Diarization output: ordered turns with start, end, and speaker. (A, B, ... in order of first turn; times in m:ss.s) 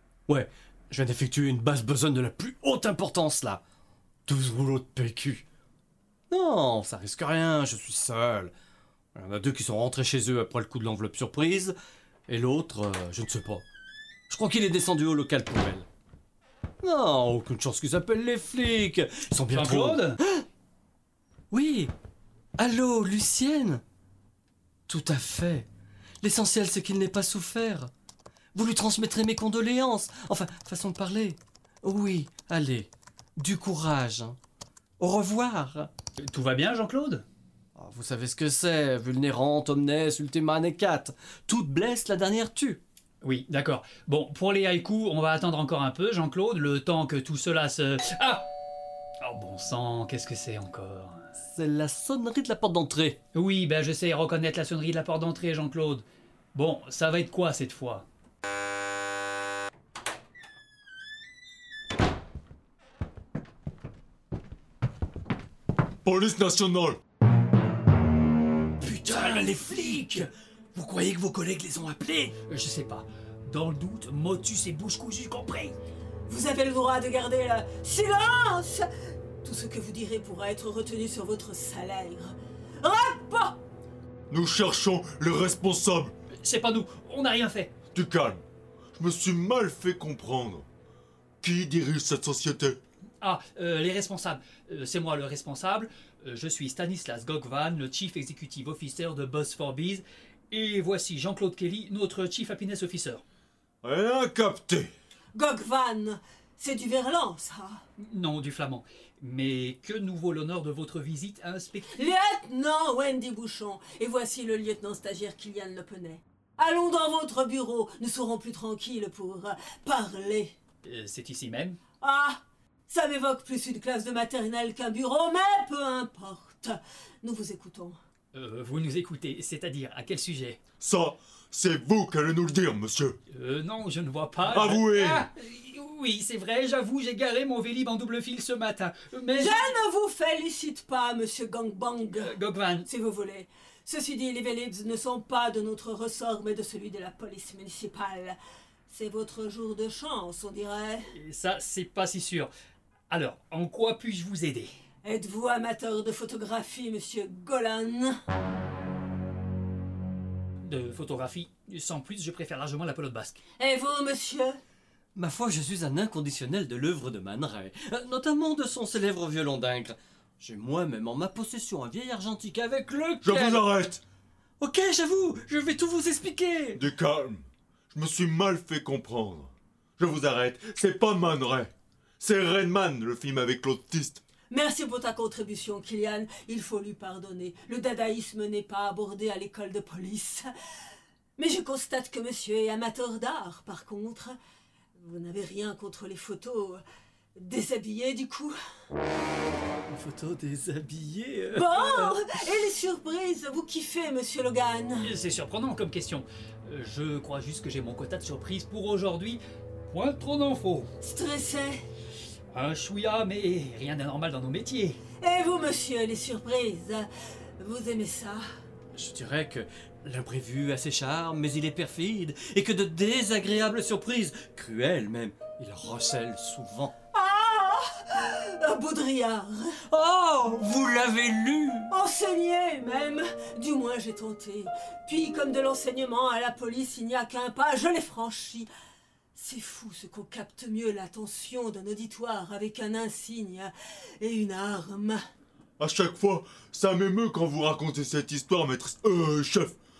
0:00.3-0:03.6 A
0:04.3-0:05.4 A
0:06.3-0:08.5 A
0:09.1-0:11.8 A
0:12.3-0:13.6 A
0:14.3-0:15.9 A
0:16.8-0:20.4 A
0:19.5-0:20.2 B
0:21.5-0:21.9 A
0:22.6-0:23.8 A
0:24.9-0:25.7 A
0:26.2-0:27.9 A
0:28.5-0:34.4 A
0:35.0-0:35.9 A
0:36.2-0:37.2 B
0:37.8-0:42.8 A
0:43.2-0:48.5 B
0:49.2-0:51.3 B
0:51.5-0:53.2 A
0:53.3-0:58.0 B
1:06.0-1:07.0 C
1:08.8-1:12.4 A
1:12.4-1:15.8 B
1:16.3-1:18.9 D
1:19.4-1:23.6 D
1:24.3-1:26.1 C
1:26.4-1:27.7 B
1:27.9-1:28.4 C
1:28.9-1:30.6 C
1:31.4-1:32.8 C
1:33.2-1:43.2 B
1:43.8-1:44.9 C
1:45.3-1:47.8 D
1:48.0-1:52.1 B
1:51.9-2:00.5 D
2:00.8-2:01.8 B
2:02.0-2:08.0 D
2:08.3-2:10.6 B
2:10.8-2:13.2 C
2:13.3-2:19.8 B
2:14.4-2:15.3 C
2:19.4-2:22.3 D
2:22.1-2:22.9 B
2:22.8-2:31.1 D
2:31.1-2:32.5 B
2:33.1-2:34.7 B
2:35.0-2:38.2 D
2:40.6-2:43.4 B
2:43.6-2:44.6 D
2:45.1-2:53.6 A
2:53.2-2:54.0 C
2:54.6-2:56.8 A
2:56.8-3:04.2 C
3:04.5-3:10.5 D
3:11.4-3:14.4 D
3:15.0-3:16.8 D
3:17.4-3:18.6 D
3:19.9-3:22.2 A
3:21.5-3:25.1 D
3:25.0-3:30.9 B
3:31.0-3:31.8 D
3:32.5-3:35.0 B
3:35.2-3:37.1 D
3:37.6-3:38.4 D
3:38.9-3:46.9 A
3:47.1-3:49.8 D
3:49.9-3:51.9 A
3:51.9-3:58.7 D
3:59.3-4:05.2 D
4:05.8-4:09.8 C